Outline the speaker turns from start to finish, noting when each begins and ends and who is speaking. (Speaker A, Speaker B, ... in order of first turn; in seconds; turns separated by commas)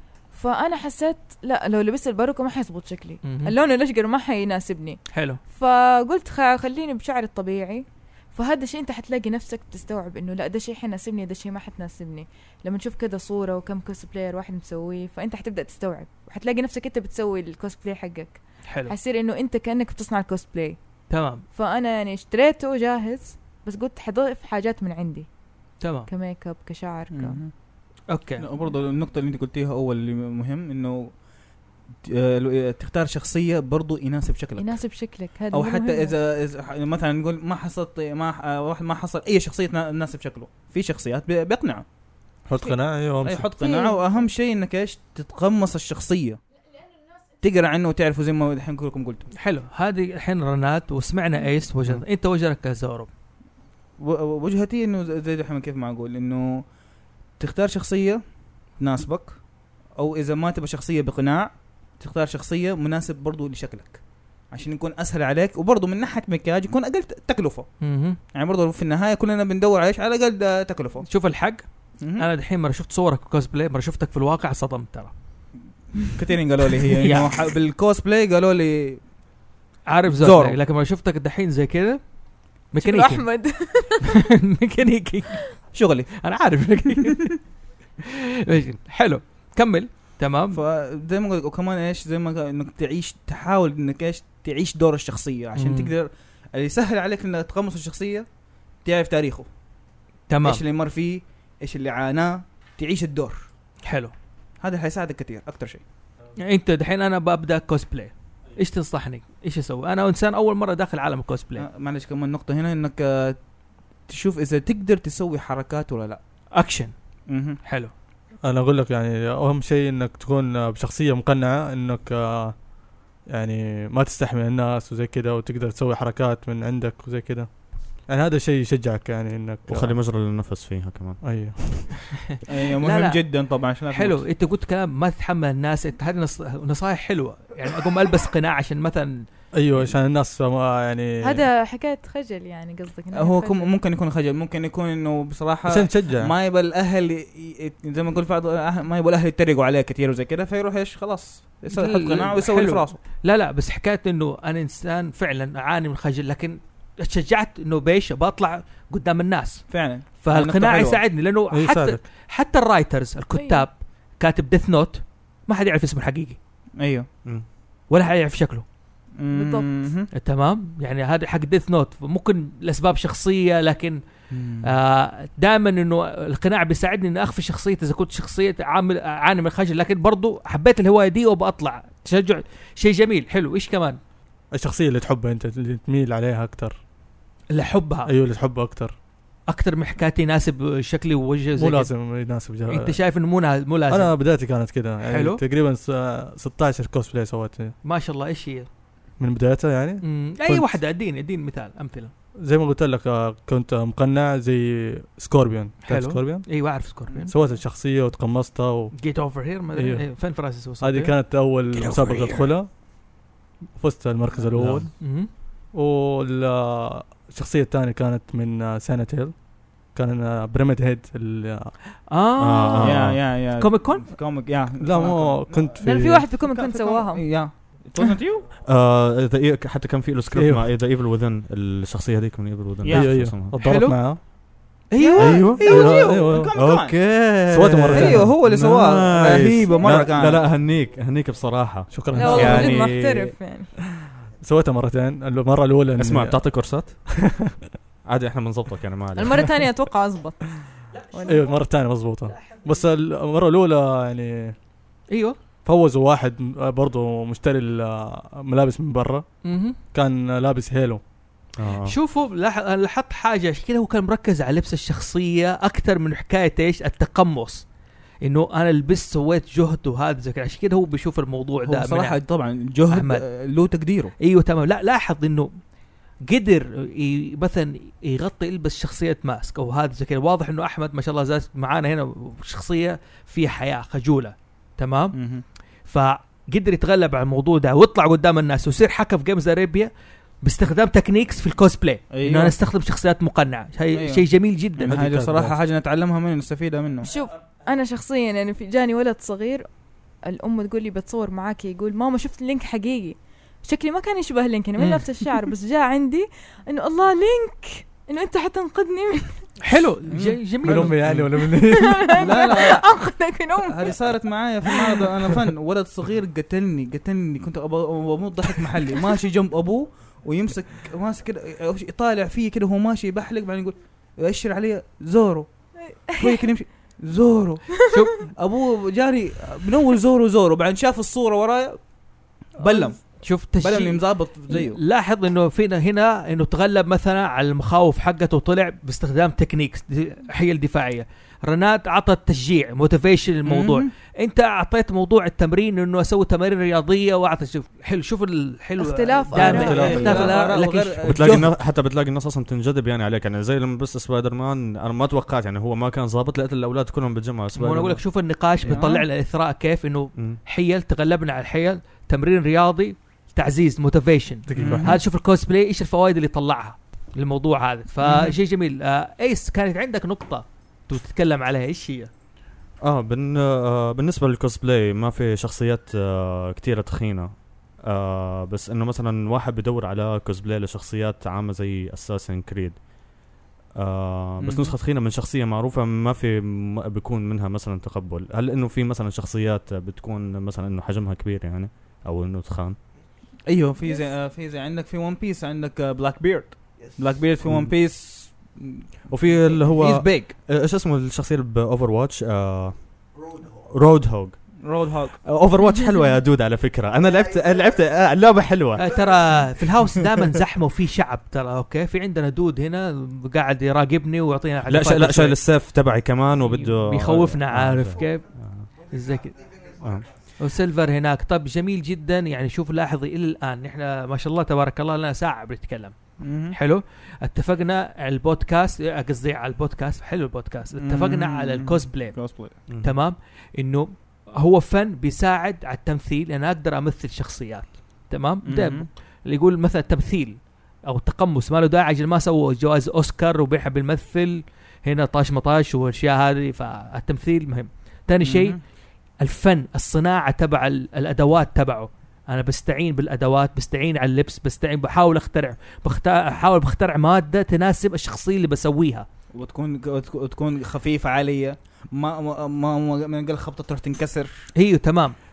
Speaker A: 0.3-20.8, Speaker B: 3.2-3.5, Speaker B: 5.1-5.4, Speaker B: 18.7-18.9, Speaker B: 21.1-21.4, Speaker A: 21.5-25.3, Speaker B: 25.8-26.1, Speaker A: 26.1-27.4, Speaker C: 27.1-27.5, Speaker B: 28.1-28.5, Speaker C: 28.4-31.2, Speaker C: 32.0-34.8, Speaker A: 34.6-36.1, Speaker C: 35.5-41.9, Speaker D: 42.5-43.5, Speaker C: 43.2-46.4, Speaker A: 43.6-44.0, Speaker C: 47.4-49.3, Speaker B: 49.4-53.1, Speaker C: 54.0-56.7, Speaker C: 57.4-58.2, Speaker C: 58.8-59.4, Speaker C: 60.0-71.1, Speaker B: 67.8-68.2, Speaker B: 71.1-75.1, Speaker C: 72.0-72.3, Speaker C: 76.1-79.0, Speaker B: 76.9-77.5, Speaker B: 79.9-87.4, Speaker C: 80.2-80.6, Speaker A: 82.8-84.1, Speaker C: 85.7-86.2, Speaker B: 88.5-90.6, Speaker C: 90.5-98.3, Speaker B: 95.5-95.9, Speaker C: 98.8-99.5, Speaker B: 100.3-100.6, Speaker C: 100.4-103.5, Speaker B: 103.8-104.1, Speaker C: 104.6-105.8, Speaker B: 106.4-111.7, Speaker C: 111.6-113.5, Speaker C: 114.0-116.2, Speaker B: 116.5-116.9, Speaker C: 117.3-117.6, Speaker B: 117.6-117.9, Speaker D: 118.5-122.7, Speaker D: 123.2-129.9, Speaker E: 129.7-131.2, Speaker D: 131.2-132.1, Speaker B: 132.4-139.2, Speaker C: 132.5-134.2, Speaker D: 139.5-141.4, Speaker A: 141.2-143.7, Speaker C: 143.1-153.0, Speaker D: 145.7-146.3, Speaker B: 151.7-166.4, Speaker C: 159.7-161.0, Speaker D: 161.5-162.0, Speaker A: 163.3-163.7, Speaker C: 166.8-167.1, Speaker B: 167.9-168.7, Speaker C: 169.2-170.1, Speaker A: 169.3-169.7, Speaker B: 170.1-184.0, Speaker C: 174.3-174.7, Speaker D: 184.5-186.8, Speaker B: 187.5-188.1, Speaker D: 188.1-188.9, Speaker B: 189.5-194.2, Speaker D: 191.6-193.0, Speaker D: 193.9-197.8, Speaker B: 195.0-195.4, Speaker B: 197.8-198.7, Speaker D: 199.2-200.8, Speaker B: 200.0-202.1, Speaker D: 202.4-206.7, Speaker B: 205.8-207.3, Speaker C: 207.1-207.5, Speaker D: 207.3-209.0, Speaker B: 208.9-211.1, Speaker D: 209.7-212.8, Speaker B: 211.8-212.3, Speaker E: 212.0-212.3, Speaker D: 213.7-221.7, Speaker E: 214.5-214.9, Speaker B: 215.0-215.3, Speaker B: 222.1-224.1, Speaker E: 222.4-223.2, Speaker C: 222.8-225.8, Speaker D: 224.8-226.3, Speaker A: 225.8-227.8, Speaker C: 226.3-228.5, Speaker E: 228.6-233.6, Speaker D: 230.3-230.6, Speaker C: 232.8-233.1, Speaker D: 232.9-234.8, Speaker B: 233.6-234.3, Speaker B: 234.9-235.7, Speaker C: 234.9-237.3, Speaker E: 235.2-235.7, Speaker D: 235.6-236.5, Speaker E: 236.5-243.3, Speaker D: 237.4-238.5, Speaker C: 237.9-240.5, Speaker A: 239.5-240.0, Speaker D: 241.9-242.9, Speaker A: 242.2-243.7, Speaker D: 244.4-246.4, Speaker E: 246.0-247.0, Speaker D: 247.1-247.5, Speaker E: 248.1-249.5, Speaker A: 249.2-250.5, Speaker A: 251.1-251.4, Speaker D: 251.2-254.6, Speaker B: 255.1-255.4, Speaker D: 255.6-259.4, Speaker B: 259.4-259.8, Speaker D: 259.9-261.0, Speaker E: 261.6-261.9, Speaker B: 261.8-267.7, Speaker B: 268.2-272.2, Speaker C: 271.7-274.1, Speaker B: 272.9-273.2, Speaker B: 274.2-275.5, Speaker B: 276.3-285.2, Speaker C: 285.1-285.4, Speaker B: 285.8-289.9, Speaker B: 290.4-295.1, Speaker C: 292.1-292.6, Speaker C: 293.9-294.2, Speaker C: 294.8-297.1, Speaker D: 294.9-295.5, Speaker A: 297.0-299.7, Speaker A: 300.2-309.5, Speaker B: 304.8-305.5, Speaker B: 309.6-311.0, Speaker C: 310.1-310.9, Speaker D: 310.6-312.2, Speaker E: 311.1-311.3, Speaker A: 311.4-314.0, Speaker C: 312.2-313.1, Speaker B: 312.2-312.5, Speaker C: 313.6-331.9, Speaker A: 325.9-326.5, Speaker B: 327.9-328.3, Speaker C: 332.5-334.8, Speaker B: 332.6-351.4, Speaker C: 343.5-343.9, Speaker A: 348.8-350.2, Speaker D: 349.4-350.4, Speaker C: 349.6-351.5, Speaker E: 351.1-358.0, Speaker B: 357.5-372.1, Speaker C: 358.7-359.1, Speaker D: 364.5-364.9, Speaker C: 364.6-365.0, Speaker C: 368.0-368.4, Speaker E: 372.8-383.0, Speaker E: 383.8-392.8, Speaker C: 384.4-384.7, Speaker C: 393.5-400.3, Speaker E: 397.4-397.7, Speaker E: 399.1-408.9, Speaker C: 404.6-405.2, Speaker B: 408.8-415.6, Speaker E: 414.7-418.7, Speaker B: 416.4-419.6, Speaker E: 419.8-420.1, Speaker B: 420.4-459.1, Speaker C: 426.2-426.6, Speaker C: 430.8-432.5, Speaker E: 432.7-432.9, Speaker C: 438.5-438.9, Speaker C: 448.2-448.6, Speaker C: 459.3-464.5, Speaker B: 464.6-465.2